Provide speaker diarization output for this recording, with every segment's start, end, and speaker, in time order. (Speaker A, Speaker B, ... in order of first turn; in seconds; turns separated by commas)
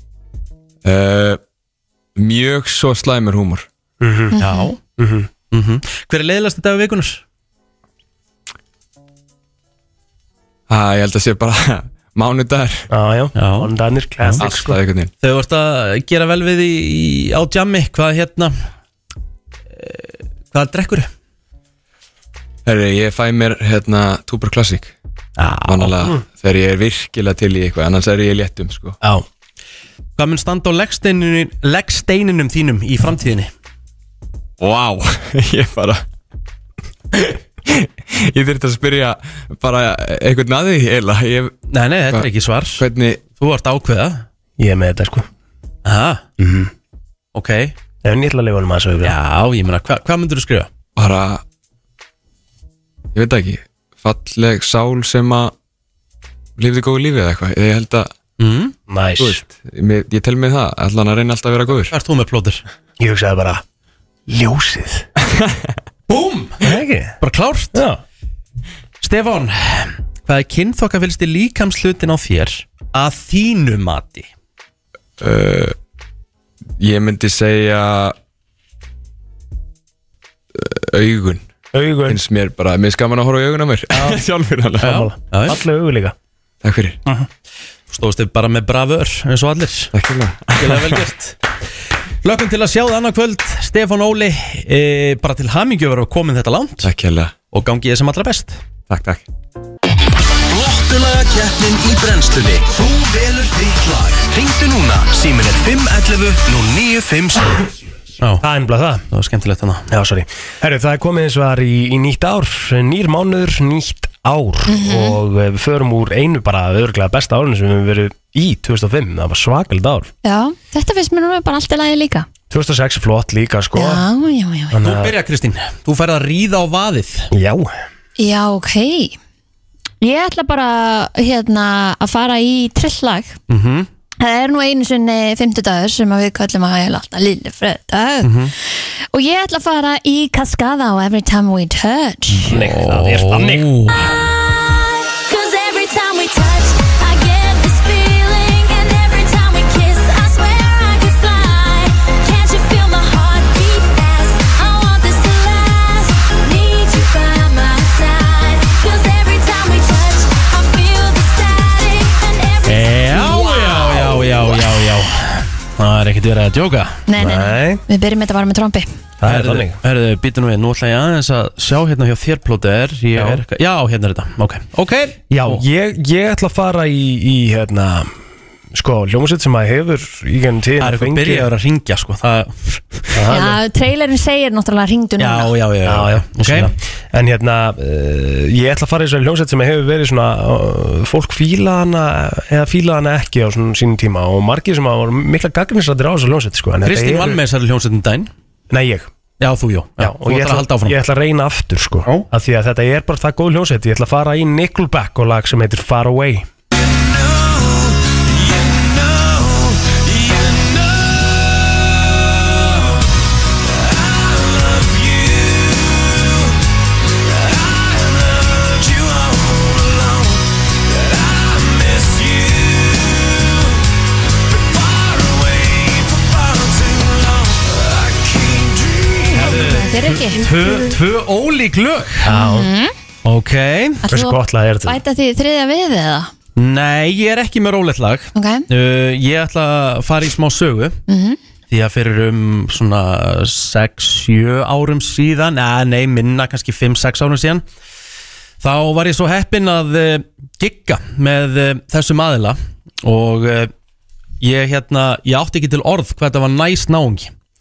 Speaker A: 0.8-1.4, Speaker A: 2.2-3.7, Speaker B: 4.0-4.4, Speaker C: 4.3-4.7, Speaker D: 4.4-4.8, Speaker B: 5.0-5.3, Speaker D: 5.5-7.2, Speaker A: 10.7-12.9, Speaker B: 12.9-14.8, Speaker D: 13.3-13.7, Speaker A: 14.4-15.1, Speaker D: 15.2-18.5, Speaker D: 19.8-21.1, Speaker A: 22.6-24.9, Speaker D: 25.4-26.0, Speaker A: 25.6-28.9, Speaker D: 30.2-33.5, Speaker A: 34.6-36.0, Speaker A: 37.1-41.5, Speaker D: 41.7-44.2, Speaker A: 42.1-43.3, Speaker B: 44.6-45.3, Speaker D: 45.8-46.2, Speaker B: 46.4-46.7, Speaker D: 47.3-47.7, Speaker B: 48.0-49.1, Speaker D: 49.0-50.7, Speaker A: 51.0-51.4, Speaker A: 53.1-55.5, Speaker A: 56.6-58.1, Speaker D: 58.4-58.7, Speaker B: 58.9-59.4, Speaker A: 59.2-61.9, Speaker D: 61.9-62.6, Speaker B: 63.0-63.6, Speaker B: 64.3-65.1, Speaker A: 65.3-65.7, Speaker D: 66.1-67.8, Speaker B: 66.6-67.2, Speaker B: 67.7-68.0, Speaker D: 69.0-74.3, Speaker A: 75.2-75.7, Speaker A: 76.8-78.2, Speaker A: 80.5-81.5, Speaker B: 81.7-82.2, Speaker A: 82.0-85.0, Speaker D: 83.9-84.2, Speaker D: 84.8-85.6, Speaker B: 84.8-86.1, Speaker A: 86.6-87.0, Speaker D: 87.9-89.9, Speaker A: 89.9-91.0, Speaker D: 90.5-91.3, Speaker D: 92.2-96.9, Speaker A: 96.8-97.3, Speaker D: 97.5-98.6, Speaker A: 98.9-99.2, Speaker E: 100.5-107.7, Speaker B: 108.4-109.0, Speaker D: 109.1-109.9, Speaker B: 109.9-120.1, Speaker C: 114.7-115.2, Speaker C: 120.2-122.2, Speaker B: 122.5-124.0, Speaker C: 123.7-124.8, Speaker B: 124.7-125.1, Speaker D: 124.8-127.3, Speaker B: 127.3-127.7, Speaker C: 128.2-129.2, Speaker C: 130.0-133.4, Speaker D: 133.5-133.9, Speaker C: 134.2-138.3, Speaker D: 138.2-138.5, Speaker C: 139.1-142.5, Speaker D: 142.4-144.1, Speaker B: 142.5-143.7, Speaker F: 144.4-164.8, Speaker D: 162.6-167.0, Speaker C: 167.1-168.9, Speaker B: 167.2-167.8, Speaker B: 169.2-169.8, Speaker D: 169.2-175.6, Speaker B: 173.1-173.4, Speaker B: 175.3-178.1, Speaker B: 178.7-181.5, Speaker D: 180.8-183.3, Speaker B: 183.1-183.6, Speaker C: 183.3-185.5, Speaker D: 185.2-186.7, Speaker B: 185.8-197.4, Speaker D: 196.8-198.3, Speaker B: 198.7-199.1, Speaker D: 199.4-200.9, Speaker B: 200.0-206.5, Speaker E: 221.8-222.3, Speaker E: 224.8-227.1, Speaker D: 229.3-232.3, Speaker C: 229.3-230.5, Speaker B: 232.2-232.7, Speaker C: 232.3-232.9, Speaker D: 233.2-234.0, Speaker C: 234.0-236.3, Speaker B: 234.1-235.0, Speaker D: 236.6-241.0, Speaker C: 238.3-238.7, Speaker C: 241.1-241.4, Speaker D: 241.7-247.6, Speaker D: 248.6-253.7, Speaker D: 254.4-257.3